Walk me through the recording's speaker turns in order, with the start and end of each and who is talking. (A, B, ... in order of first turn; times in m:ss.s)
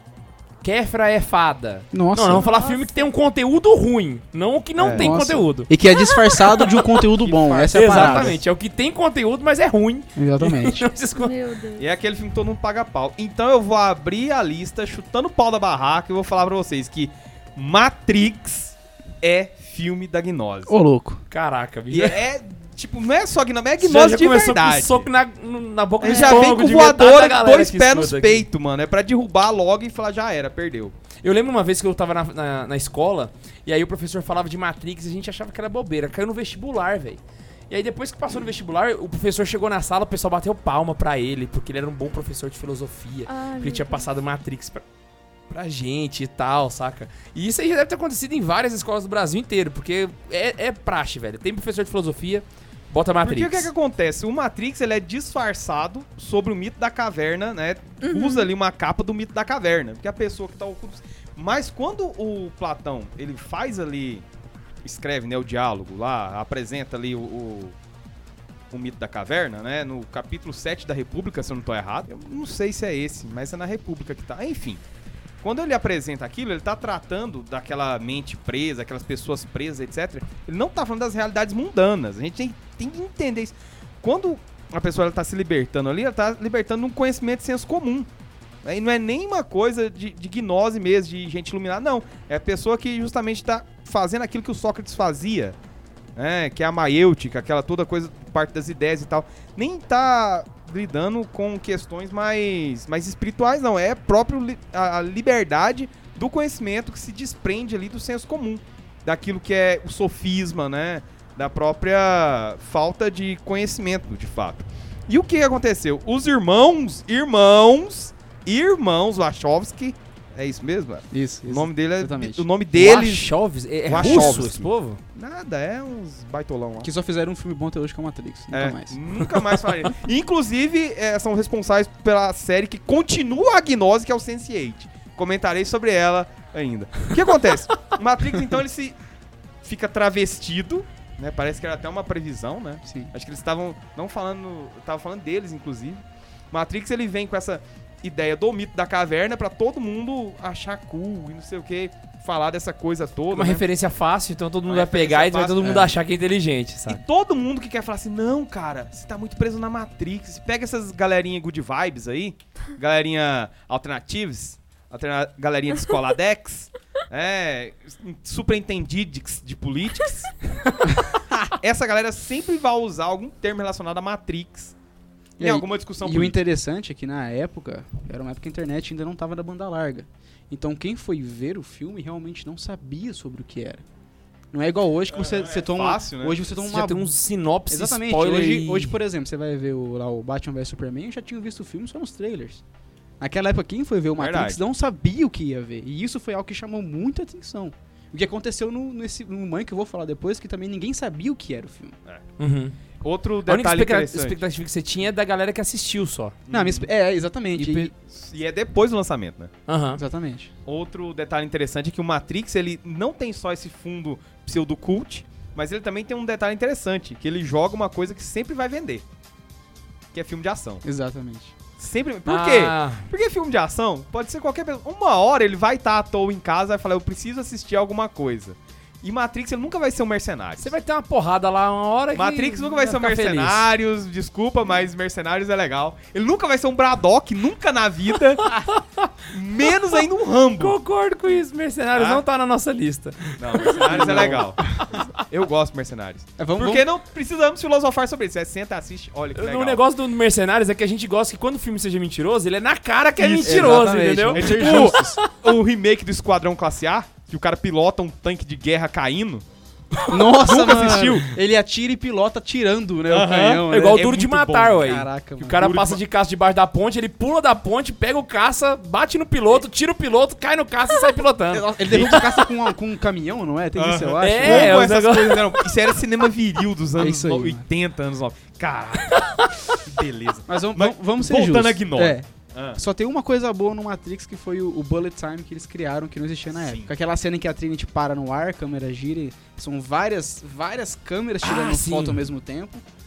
0:00.6-0:05.7 A
0:01.9-0:02.5 B
0:02.4-0:03.1 C
0:04.8-0:05.2 D
0:04.9-0:08.4 B
0:06.0-0:06.4 C
0:06.4-0:07.0 A
0:07.2-0:08.4 D
0:07.7-0:11.4 A
0:10.2-0:10.9 B
0:11.2-0:11.9 C
0:11.8-0:20.7 D
0:20.7-0:21.2 B
0:21.3-0:22.2 A
0:21.9-0:25.1 D
0:23.8-0:28.4 A
0:26.0-0:30.9 D
0:26.0-0:26.4 C
0:31.2-0:44.8 A
0:43.3-0:44.1 C
0:45.5-0:53.7 A
0:53.2-1:04.2 D
0:58.0-0:58.5 C
1:04.8-1:07.7 D
1:08.7-1:14.8 D
1:15.4-1:28.1 D
1:28.6-1:35.6 D
1:36.2-2:03.3 D
2:01.1-2:02.4 B
2:02.7-2:05.0 A
2:03.8-2:06.9 D
2:06.8-2:09.0 B
2:08.5-2:19.0 D
2:19.6-2:33.6 D
2:22.8-2:23.1 B
2:33.3-2:37.0 A
2:34.6-2:35.8 D
2:35.6-2:35.9 B
2:36.9-2:50.3 D
2:51.3-2:54.7 D
2:55.4-2:56.4 D
2:55.4-3:03.8 B
3:04.5-3:07.1 B
3:05.1-3:06.5 D
3:06.6-3:09.0 A
3:07.7-3:12.6 B
3:13.2-3:22.0 B
3:14.2-3:14.6 D
3:22.4-3:22.8 A
3:23.0-3:24.4 D
3:23.4-3:26.4 A
3:26.5-3:26.9 D
3:26.5-3:27.9 B
3:27.6-3:27.9 A
3:28.1-3:29.5 D
3:29.7-3:30.0 A
3:30.0-3:30.5 B
3:30.6-3:39.0 D
3:40.1-3:40.8 D
3:40.8-3:41.5 B
3:41.8-3:50.7 D
3:42.2-3:43.1 A
3:50.6-3:53.6 A
3:52.1-3:58.6 D
3:58.4-3:59.1 A
3:59.2-4:00.8 D
4:00.6-4:04.5 A
4:01.9-4:02.2 D
4:03.4-4:09.8 D
4:03.9-4:04.8 B
4:06.4-4:06.9 B
4:09.3-4:15.3 A
4:13.2-4:19.4 D
4:13.4-4:15.2 B
4:20.1-4:24.1 B
4:20.3-4:21.3 D
4:23.1-4:24.9 D
4:23.7-4:32.5 A
4:24.8-4:25.6 B
4:25.6-4:26.0 D
4:31.5-4:34.8 B
4:31.9-4:32.2 D
4:33.8-4:42.8 D
4:34.2-4:35.6 A
4:37.0-4:37.6 B
4:39.1-4:39.4 A
4:40.5-4:52.8 B
4:46.5-4:46.9 D
4:51.4-4:52.2 A